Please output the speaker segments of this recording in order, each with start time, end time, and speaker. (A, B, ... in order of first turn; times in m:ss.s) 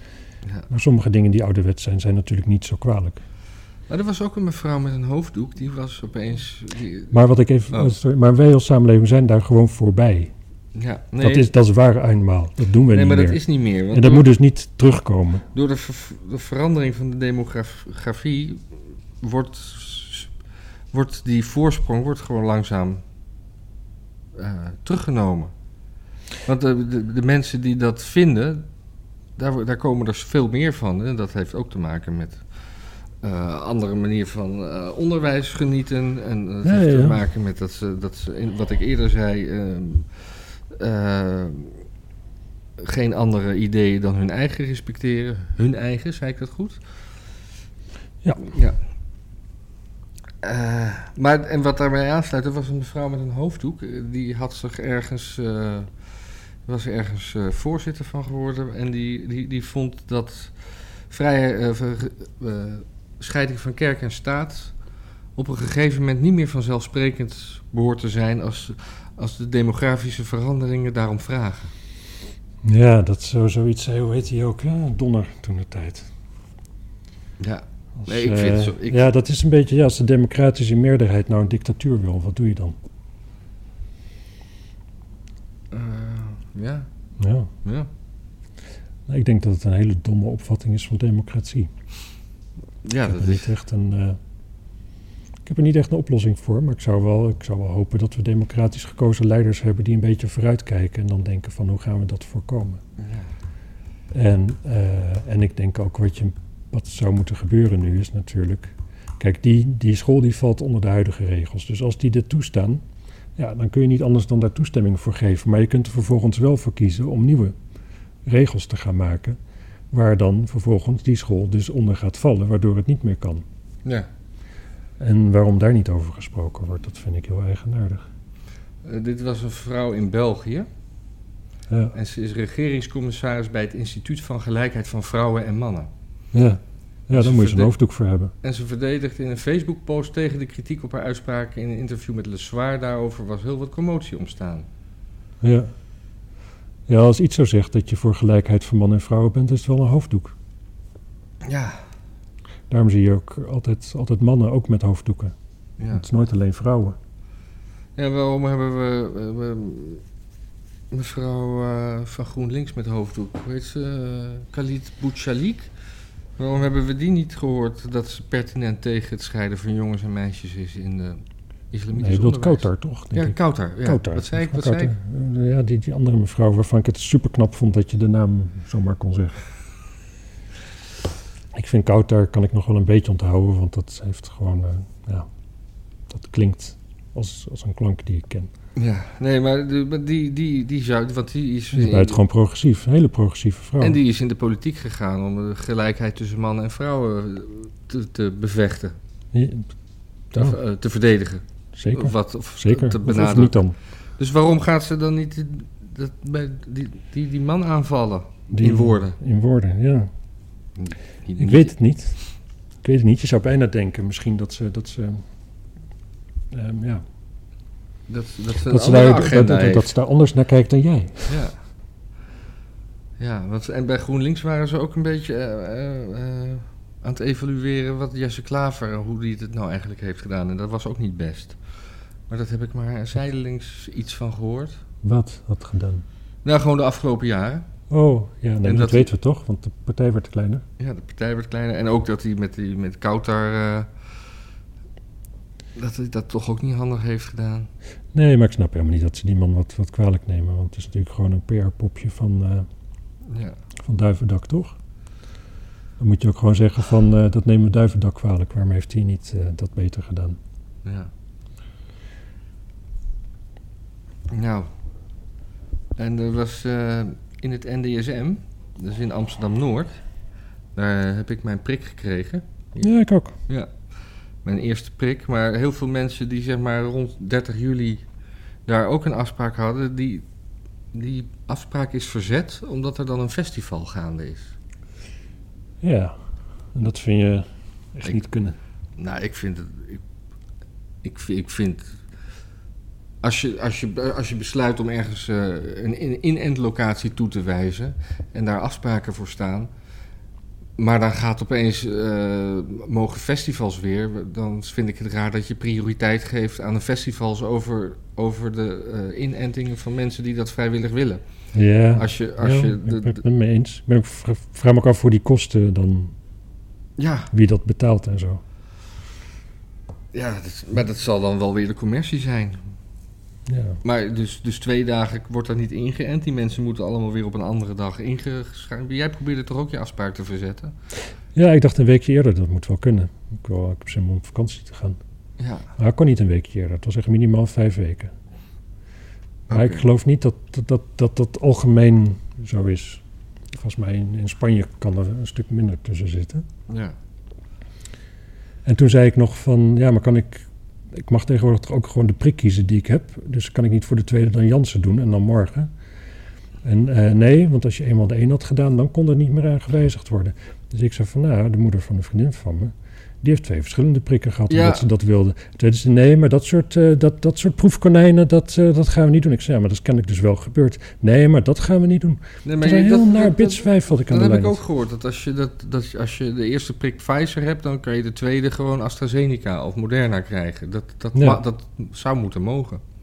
0:00.7-0:03.2 A
0:03.9-0:07.1 B
0:07.1-0:10.3 A
0:07.7-0:08.0 B
0:10.7-0:11.5 B
0:11.2-0:15.4 A
0:12.9-0:14.3 B
0:15.5-0:18.6 B
0:19.2-0:20.3 B
0:20.9-0:23.0 B
0:24.3-0:25.5 B
0:26.4-0:28.6 B
0:29.4-0:32.4 B
0:33.2-0:40.1 B
0:36.6-0:37.2 A
0:40.7-0:41.8 B
0:42.8-0:46.8 B
0:48.4-0:48.8 B
0:50.4-0:55.9 B
0:56.6-1:04.7 B
1:05.4-1:11.7 B
1:12.6-1:16.1 A
1:17.4-1:19.0 B
1:18.0-1:22.8 A
1:25.7-1:26.9 B
1:27.2-1:27.5 A
1:29.1-1:31.7 A
1:32.8-1:33.5 B
1:33.0-1:34.2 A
1:35.4-1:42.8 A
1:43.0-1:43.3 B
1:44.1-1:52.8 A
1:53.4-1:57.5 A
1:58.2-1:59.4 A
1:59.9-2:03.4 A
2:05.0-2:08.0 A
2:08.8-2:10.7 B
2:11.7-2:11.9 A
2:11.9-2:15.9 B
2:16.3-2:18.3 A
2:17.1-2:17.7 B
2:18.4-2:24.7 B
2:25.4-2:25.7 A
2:26.9-2:30.3 A
2:31.4-2:31.8 B
2:32.7-2:35.3 A
2:35.8-2:36.0 B
2:35.9-2:37.0 A
2:38.0-2:40.0 B
2:40.9-2:45.7 B
2:46.4-2:54.9 B
2:52.0-2:59.4 A
3:01.5-3:05.3 A
3:06.1-3:08.5 A
3:08.8-3:12.2 B
3:11.7-3:14.0 A
3:13.8-3:19.0 B
3:19.3-3:19.7 A
3:20.3-3:23.6 B
3:21.7-3:23.8 A
3:24.2-3:29.2 B
3:28.5-3:30.1 A
3:30.8-3:31.7 B
3:31.4-3:32.2 A
3:32.8-3:35.2 A
3:36.5-3:37.0 A
3:38.1-3:39.9 B
3:38.6-3:41.4 A
3:41.3-3:41.6 B
3:43.2-3:51.6 B
3:52.3-3:54.8 B
3:55.0-3:56.0 A
3:56.4-3:57.7 B
3:57.9-4:00.6 A
3:58.6-3:59.1 B
4:00.8-4:03.9 B
4:05.8-4:07.7 B
4:08.1-4:12.6 A
4:13.3-4:13.6 B
4:13.8-4:14.7 A
4:16.0-4:20.4 A
4:20.8-4:21.1 B
4:24.3-4:24.7 B
4:26.0-4:30.0 B
4:30.8-4:32.9 B
4:32.8-4:33.3 A
4:34.4-4:38.0 B
4:38.6-4:40.2 B
4:40.9-4:44.5 B
4:45.8-4:46.2 A
4:46.7-4:48.6 A
4:49.0-4:50.0 B
4:51.0-4:52.0 B
4:53.2-4:59.7 B
5:00.8-5:11.2 B
5:11.5-5:16.1 A
5:11.9-5:13.2 B
5:17.0-5:17.3 B
5:17.3-5:18.4 A
5:20.1-5:22.6 B
5:23.5-5:23.8 A
5:23.8-5:30.7 B
5:31.3-5:35.0 A
5:35.4-5:35.7 B
5:35.8-5:38.1 A
5:39.5-5:39.8 B
5:39.5-5:46.4 A
5:46.7-5:47.0 B
5:48.6-5:55.7 A
5:56.6-6:14.6 A
6:04.5-6:04.8 B
6:12.4-6:22.8 B
6:21.1-6:21.4 A